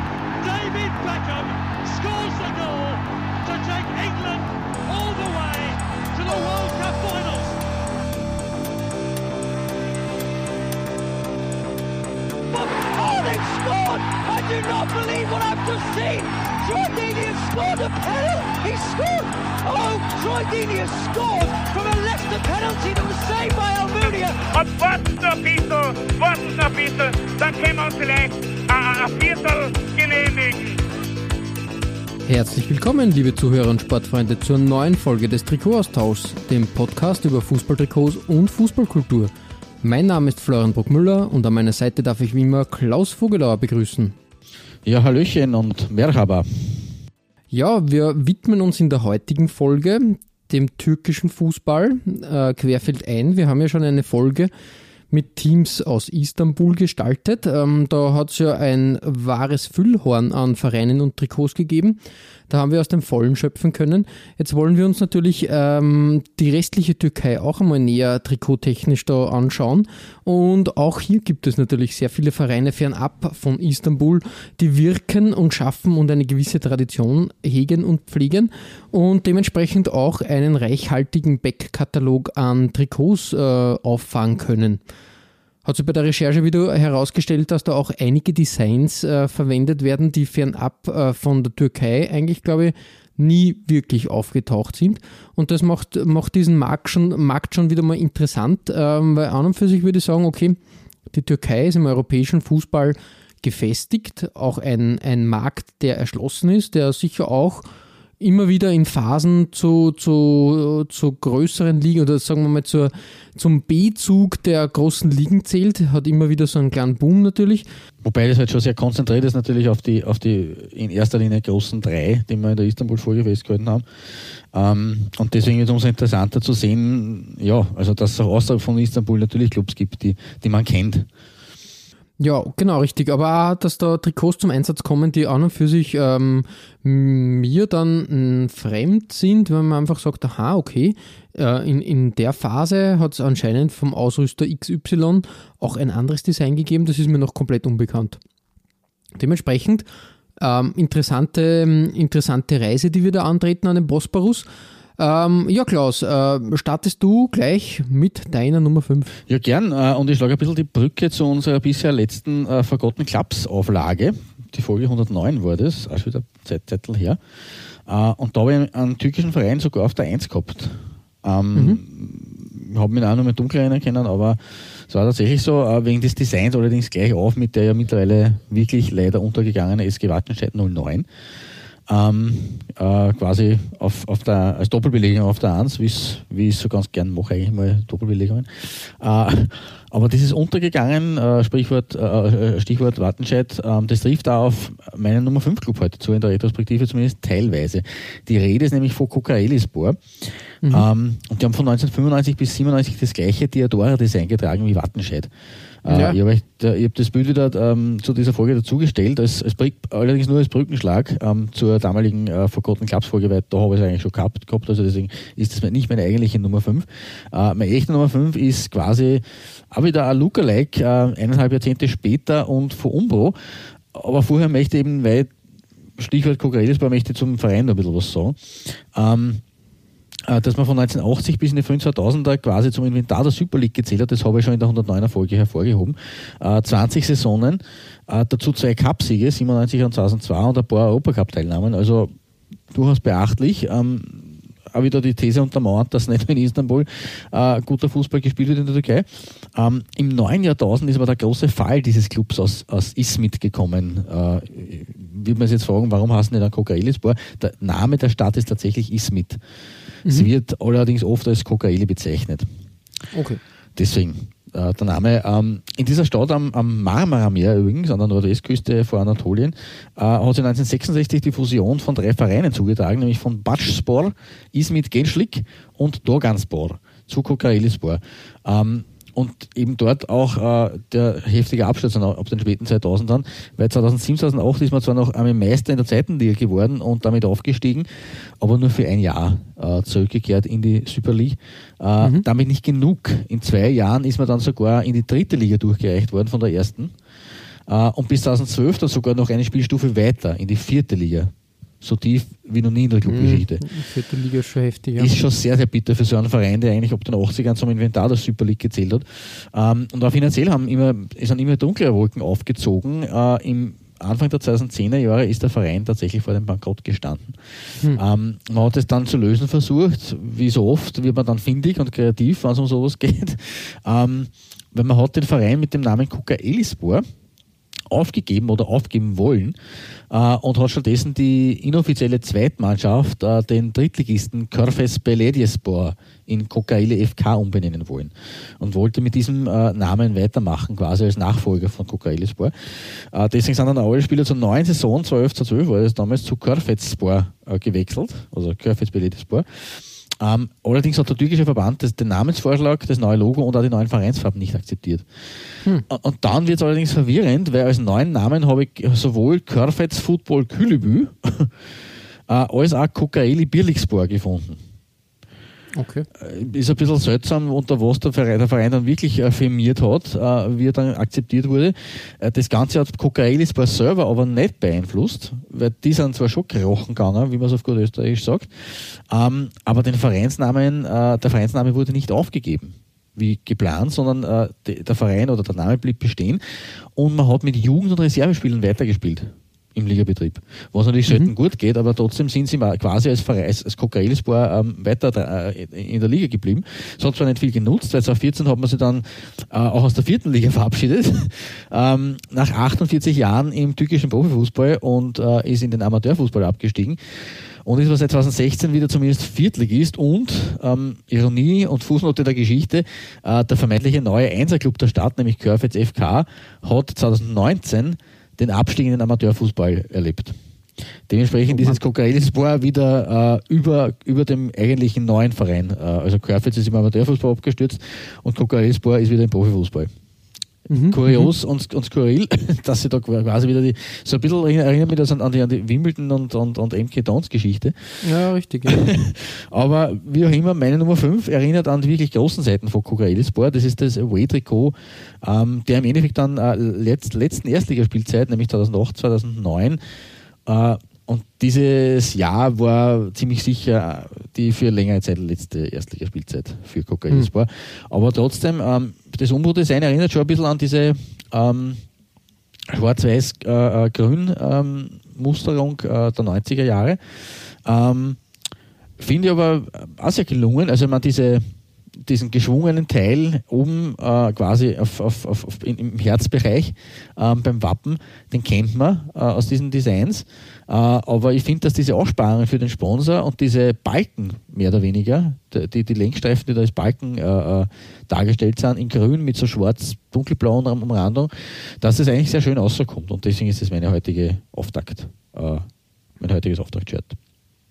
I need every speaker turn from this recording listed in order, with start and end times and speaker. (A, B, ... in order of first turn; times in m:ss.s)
0:00.4-0:07.6 A
0:12.5-0:24.4 B
0:24.5-0:30.8 C
0:32.2-0:39.3 D
0:39.8-0:44.1 D
0:44.8-0:46.9 E
0:47.5-0:54.5 D
0:55.1-1:02.0 D
1:02.5-1:24.8 D
1:25.6-1:40.6 D
1:41.1-1:47.6 D
1:48.2-1:57.6 D
1:58.0-2:03.8 E
2:04.5-2:11.1 E
2:12.2-2:28.2 D
2:29.2-2:29.8 D
2:30.4-2:34.4 D
2:35.0-2:39.2 D
2:39.3-2:47.2 E
2:47.9-3:01.0 E
2:51.5-2:51.8 D
3:01.9-3:25.3 E
3:25.8-3:43.4 E
3:25.9-3:26.2 D
3:43.9-3:45.3 E
3:46.0-3:49.4 E
3:50.3-4:02.1 E
4:02.7-4:19.4 E
4:20.0-4:20.3 D
4:20.1-4:22.5 E
4:23.1-4:23.4 D
4:23.8-4:47.9 E
4:48.4-4:56.9 E
4:57.7-5:01.3 E
5:01.8-5:03.6 E
5:03.0-5:05.1 D
5:05.0-5:17.4 E
5:17.9-5:27.0 E
5:27.9-5:29.5 E
5:30.1-5:55.0 E
5:55.9-6:01.5 E
6:02.3-6:04.6 E
6:05.7-6:06.1 D
6:06.1-6:26.4 E
6:27.0-6:47.0 E
6:47.6-7:00.4 E
7:01.1-7:09.9 E
7:01.5-7:01.8 D
7:10.7-7:11.3 D
7:10.9-7:18.0 E
7:18.0-7:18.9 D
7:18.7-7:29.8 E
7:30.4-7:41.8 E
7:42.7-7:48.2 E
7:49.0-7:51.4 E
7:52.0-8:15.6 E
8:16.2-8:17.2 E